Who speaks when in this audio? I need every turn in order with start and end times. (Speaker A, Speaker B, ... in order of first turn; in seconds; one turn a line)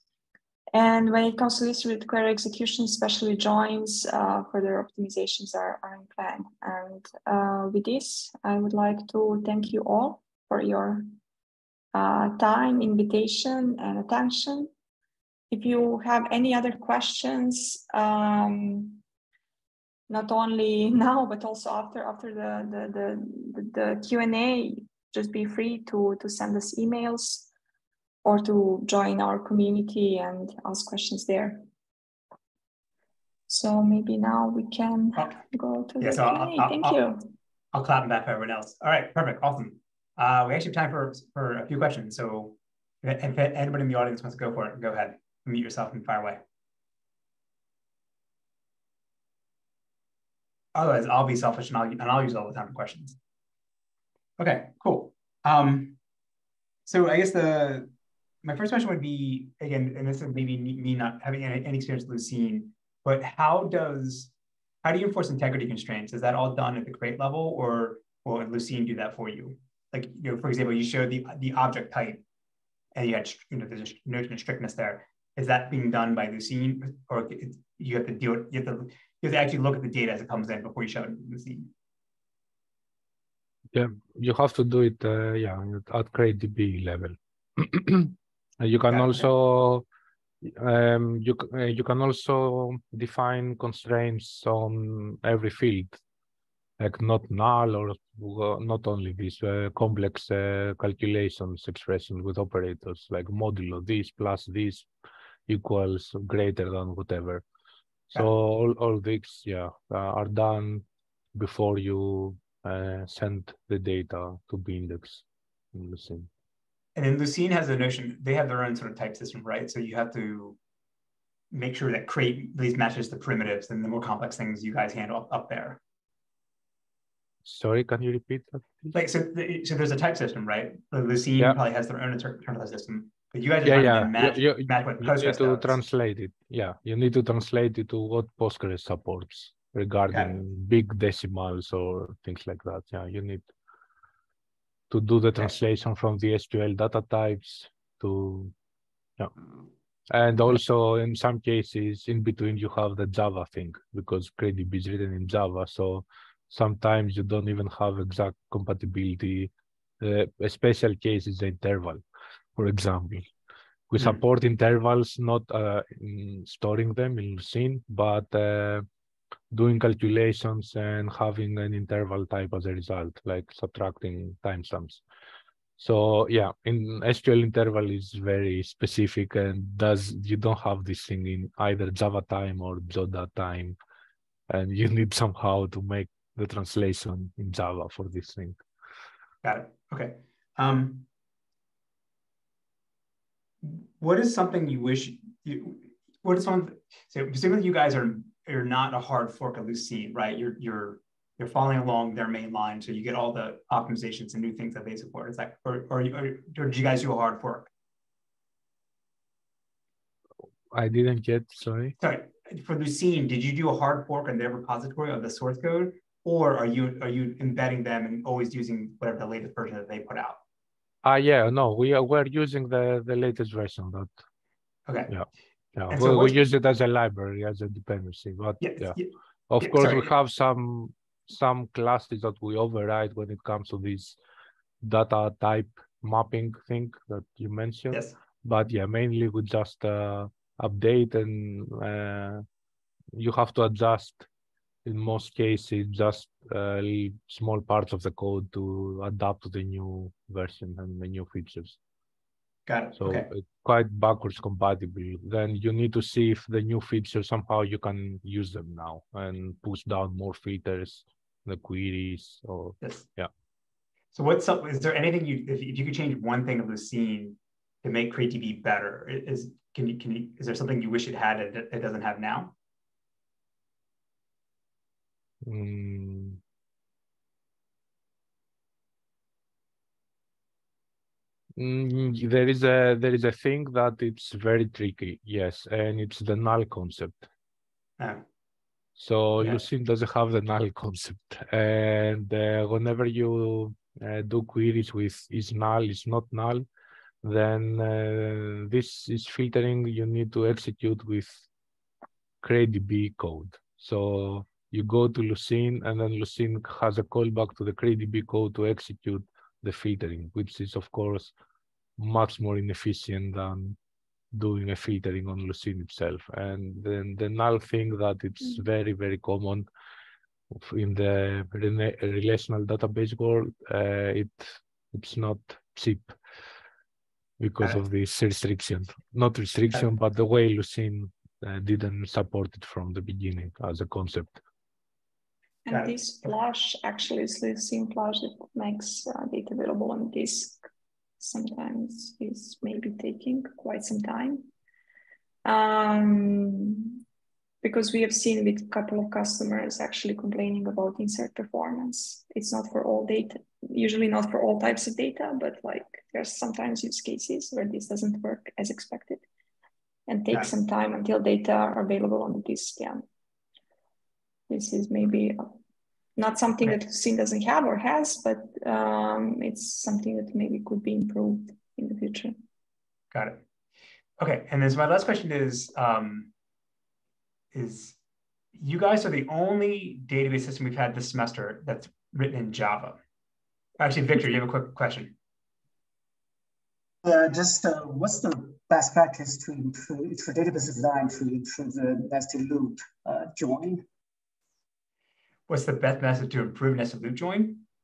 Speaker A: 0.7-11.1
Speaker A: 11.9-14.7
Speaker A: 15.5-19.0
Speaker A: 20.1-27.5
Speaker A: 28.2-31.6
Speaker A: 33.5-37.3
Speaker B: 36.0-37.0
Speaker B: 37.7-46.4
Speaker B: 50.8-53.2
Speaker B: 54.4-56.0
Speaker B: 56.9-57.9
Speaker B: 58.4-64.3
Speaker B: 64.8-72.2
Speaker B: 73.0-81.7
Speaker C: 83.7-89.8
Speaker B: 88.9-89.3
Speaker C: 90.4-96.0
Speaker C: 96.8-104.9
Speaker C: 105.5-107.4
Speaker C: 108.1-116.3
Speaker B: 117.0-120.6
Speaker B: 121.5-125.8
Speaker C: 127.5-128.9
Speaker B: 128.9-135.8
Speaker C: 133.6-143.4
Speaker C: 144.9-148.5
Speaker C: 150.1-162.0
Speaker C: 162.6-163.3
Speaker C: 163.9-168.8
Speaker C: 169.5-175.0
Speaker C: 175.8-183.8
Speaker C: 184.5-188.6
Speaker B: 189.4-191.1
Speaker B: 193.6-207.7
Speaker C: 210.7-211.9
Speaker B: 212.0-220.4
Speaker C: 221.0-224.1
Speaker B: 224.9-225.1
Speaker C: 225.1-229.0
Speaker B: 225.9-226.4
Speaker B: 228.6-230.1
Speaker C: 229.5-234.2
Speaker C: 234.8-242.4
Speaker C: 243.1-244.3
Speaker C: 244.8-251.8
Speaker B: 252.7-253.3
Speaker C: 253.0-263.3
Speaker B: 264.1-272.5
Speaker C: 275.4-276.4
Speaker C: 281.6-287.3
Speaker B: 288.0-288.2
Speaker C: 289.0-296.6
Speaker C: 297.2-301.4
Speaker C: 302.4-311.3
Speaker C: 312.0-313.8
Speaker C: 314.3-319.7
Speaker C: 320.5-326.2
Speaker C: 327.4-334.4
Speaker A: 335.6-340.6
Speaker B: 335.7-335.9
Speaker A: 341.2-344.5
Speaker A: 345.4-347.0
Speaker A: 347.6-359.2
Speaker A: 360.1-363.0
Speaker A: 364.5-365.6
Speaker A: 366.2-372.4
Speaker B: 373.1-373.4
Speaker B: 374.2-376.3
Speaker B: 377.5-378.0
Speaker B: 378.6-383.0
Speaker B: 383.8-385.2
Speaker D: 387.0-393.8
Speaker B: 395.5-397.6